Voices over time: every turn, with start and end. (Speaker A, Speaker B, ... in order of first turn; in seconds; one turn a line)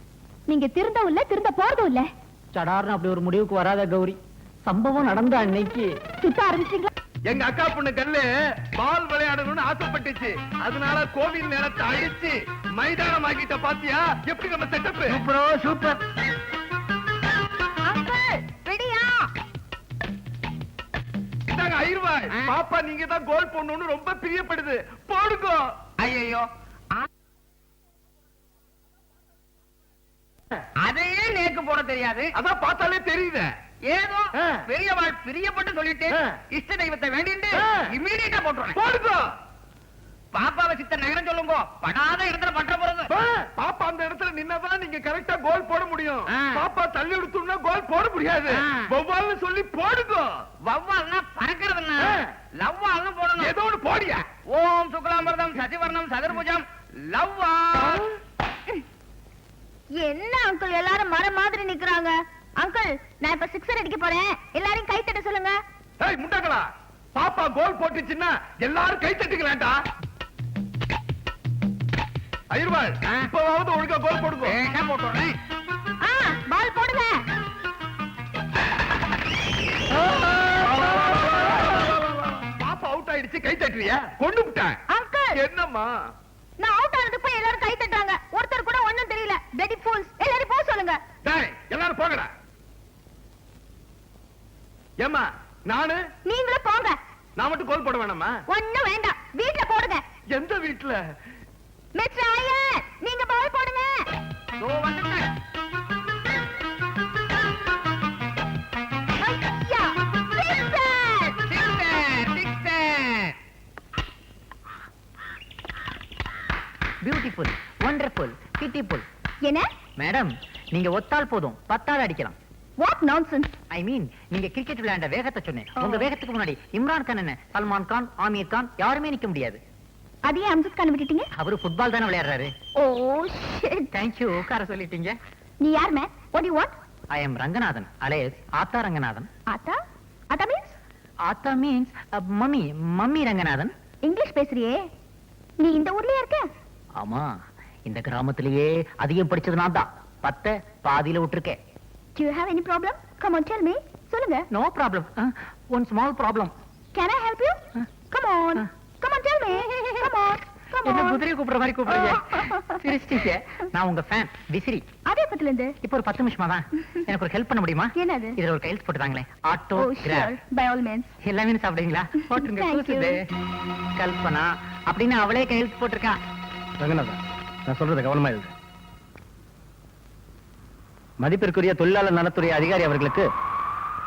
Speaker A: 0.5-2.1
Speaker B: 2.5-5.9
Speaker A: 6.2-6.9
Speaker C: 7.3-8.3
Speaker C: 8.8-15.2
Speaker D: 15.4-15.9
Speaker A: 17.8-19.2
Speaker C: 21.5-25.7
Speaker E: 26.0-26.4
Speaker E: 30.8-32.3
Speaker C: 32.4-33.5
Speaker E: 33.9-38.2
Speaker C: 38.8-39.2
Speaker E: 40.4-43.1
Speaker C: 43.1-50.3
Speaker E: 50.6-53.5
Speaker C: 53.4-54.3
Speaker E: 54.6-56.6
Speaker A: 60.0-65.6
Speaker C: 66.0-69.8
Speaker C: 72.5-74.6
Speaker E: 74.7-75.3
Speaker A: 76.0-77.2
Speaker C: 80.7-84.8
Speaker A: 84.9-85.4
Speaker C: 85.3-85.9
Speaker A: 86.6-91.0
Speaker C: 91.2-92.3
Speaker C: 95.0-96.0
Speaker A: 96.3-97.0
Speaker C: 97.4-98.3
Speaker A: 98.5-100.0
Speaker C: 100.3-101.0
Speaker A: 102.0-104.1
Speaker E: 104.6-105.2
Speaker A: 109.2-111.4
Speaker E: 112.3-112.8
Speaker B: 117.0-119.0
Speaker B: 120.0-122.4
Speaker A: 122.8-123.5
Speaker B: 123.7-129.6
Speaker A: 125.8-126.1
Speaker A: 130.2-131.3
Speaker B: 131.3-132.5
Speaker A: 132.8-133.9
Speaker B: 133.9-135.2
Speaker A: 135.6-136.7
Speaker B: 137.1-139.3
Speaker A: 139.5-139.8
Speaker A: 140.3-140.8
Speaker B: 141.3-143.7
Speaker A: 144.0-144.8
Speaker A: 145.6-146.5
Speaker B: 147.0-147.3
Speaker B: 147.9-151.6
Speaker A: 152.2-154.5
Speaker B: 154.5-156.5
Speaker A: 156.9-157.6
Speaker A: 158.1-161.2
Speaker B: 160.8-164.8
Speaker A: 162.1-162.6
Speaker A: 165.1-165.7
Speaker B: 165.8-170.3
Speaker A: 167.9-168.4
Speaker A: 169.8-171.1
Speaker B: 171.2-173.2
Speaker A: 172.3-173.2
Speaker B: 174.0-176.2
Speaker D: 176.8-178.5
Speaker D: 181.2-183.3